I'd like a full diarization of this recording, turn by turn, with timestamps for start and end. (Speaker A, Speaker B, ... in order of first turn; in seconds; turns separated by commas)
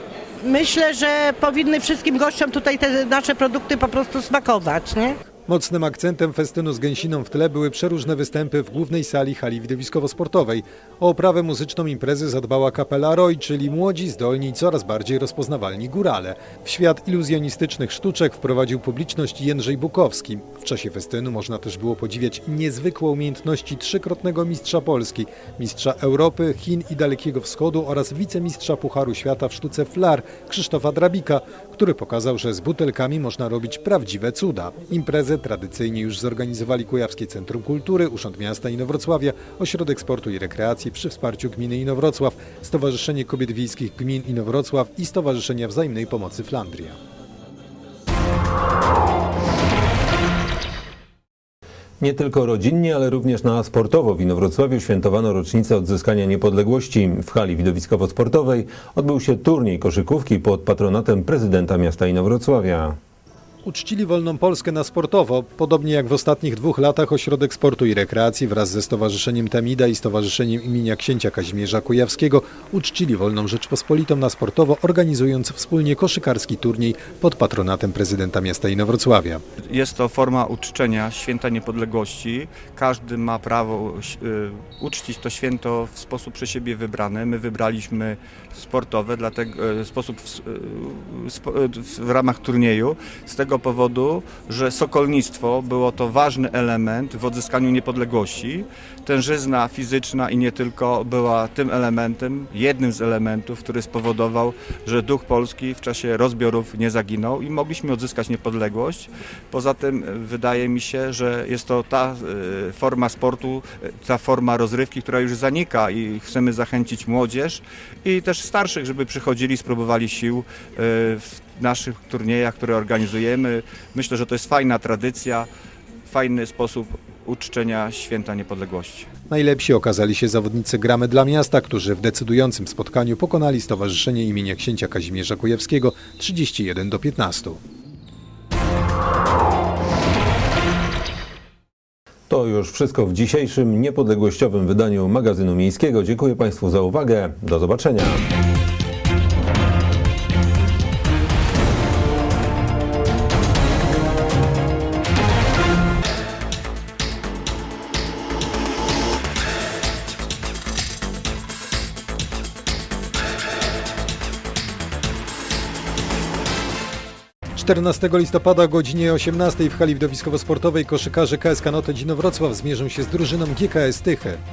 Speaker A: 0.4-5.2, Speaker B: 5.5-46.9, Speaker C: 6.8-8.3, Speaker C: 9.5-10.4, Speaker C: 11.2-11.8, Speaker C: 13.8-16.1, Speaker C: 16.9-20.6, Speaker C: 22.1-23.8, Speaker C: 24.5-25.1, Speaker C: 26.6-27.2, Speaker C: 27.7-28.8, Speaker C: 29.6-30.0, Speaker C: 30.8-31.2, Speaker C: 32.8-33.1, Speaker C: 33.7-34.4, Speaker C: 35.0-36.2, Speaker C: 40.4-41.8, Speaker D: 52.0-63.0, Speaker B: 63.6-78.8, Speaker C: 76.1-76.7, Speaker C: 77.4-79.4, Speaker E: 79.6-125.5, Speaker E: 126.1-129.1, Speaker B: 129.3-130.3, Speaker C: 129.6-132.2, Speaker B: 131.2-137.4, Speaker C: 132.8-135.8, Speaker C: 136.6-137.4, Speaker D: 142.3-148.2, Speaker C: 167.7-174.3, Speaker B: 167.9-168.5, Speaker B: 169.9-170.9, Speaker B: 172.7-173.1